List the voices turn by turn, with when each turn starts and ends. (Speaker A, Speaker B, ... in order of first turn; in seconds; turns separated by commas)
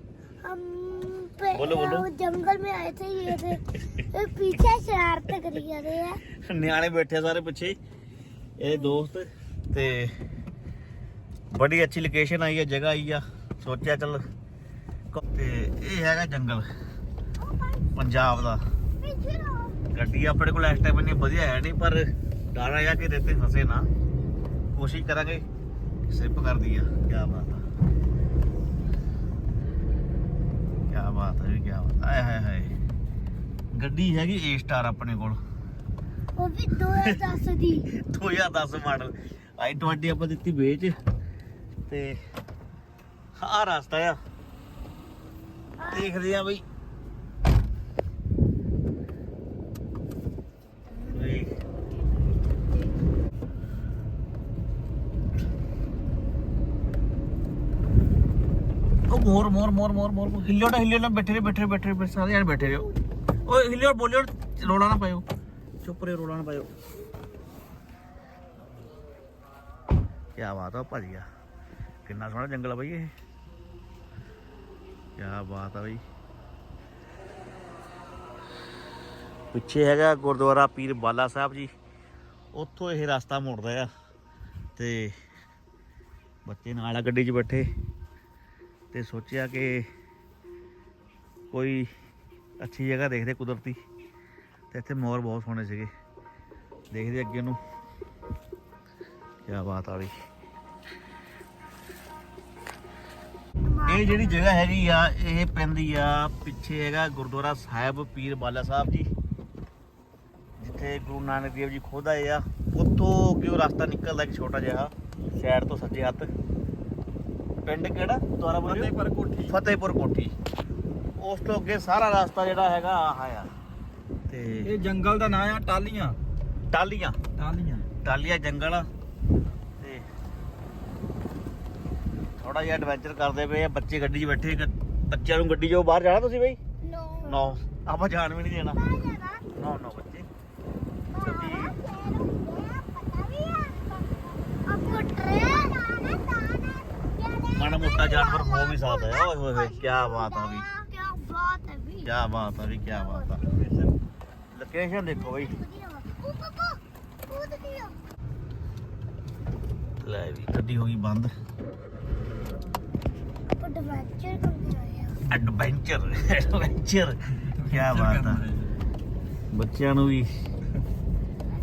Speaker A: 0.4-6.2, Speaker B: 1.5-2.1, Speaker B: 6.4-7.8, Speaker B: 8.6-10.2, Speaker B: 11.5-14.2, Speaker B: 15.2-16.7, Speaker B: 17.9-18.6, Speaker A: 19.0-19.8, Speaker B: 19.9-23.9, Speaker B: 24.7-25.5, Speaker B: 26.1-27.6, Speaker B: 30.9-32.8, Speaker B: 33.7-35.4, Speaker A: 36.4-37.9, Speaker B: 37.9-41.0, Speaker B: 41.9-42.2, Speaker B: 43.4-44.2, Speaker A: 45.8-46.3, Speaker B: 45.9-46.6, Speaker B: 51.1-51.5, Speaker B: 59.1-62.9, Speaker B: 63.4-65.2, Speaker B: 65.8-66.7, Speaker B: 70.4-71.3, Speaker B: 72.0-73.1, Speaker B: 75.2-76.0, Speaker B: 79.5-81.7, Speaker B: 82.5-83.9, Speaker B: 84.8-85.2, Speaker B: 86.5-87.7, Speaker B: 88.9-89.9, Speaker B: 91.5-91.9, Speaker B: 92.6-93.8, Speaker B: 94.7-95.9, Speaker B: 96.9-97.6, Speaker B: 99.5-100.2, Speaker A: 103.7-104.5, Speaker B: 103.9-109.1, Speaker B: 110.6-116.3, Speaker B: 117.7-118.9, Speaker C: 118.7-119.6, Speaker B: 119.5-120.3, Speaker B: 121.2-123.5, Speaker B: 124.3-124.7, Speaker C: 124.7-126.2, Speaker B: 126.7-127.2, Speaker C: 127.4-127.9, Speaker B: 128.1-128.9, Speaker B: 129.8-130.1, Speaker B: 132.4-136.6, Speaker A: 136.9-137.5, Speaker B: 137.2-138.8, Speaker A: 138.8-139.5, Speaker B: 139.6-140.3, Speaker A: 141.1-144.0, Speaker B: 141.2-141.8, Speaker A: 144.7-152.1, Speaker B: 147.5-150.7, Speaker B: 152.0-153.4, Speaker A: 152.9-153.7, Speaker C: 153.6-153.9, Speaker B: 154.5-155.6, Speaker A: 155.1-158.0, Speaker B: 160.0-161.3, Speaker A: 163.6-165.2, Speaker B: 165.3-168.4, Speaker C: 167.6-168.7, Speaker B: 169.5-170.3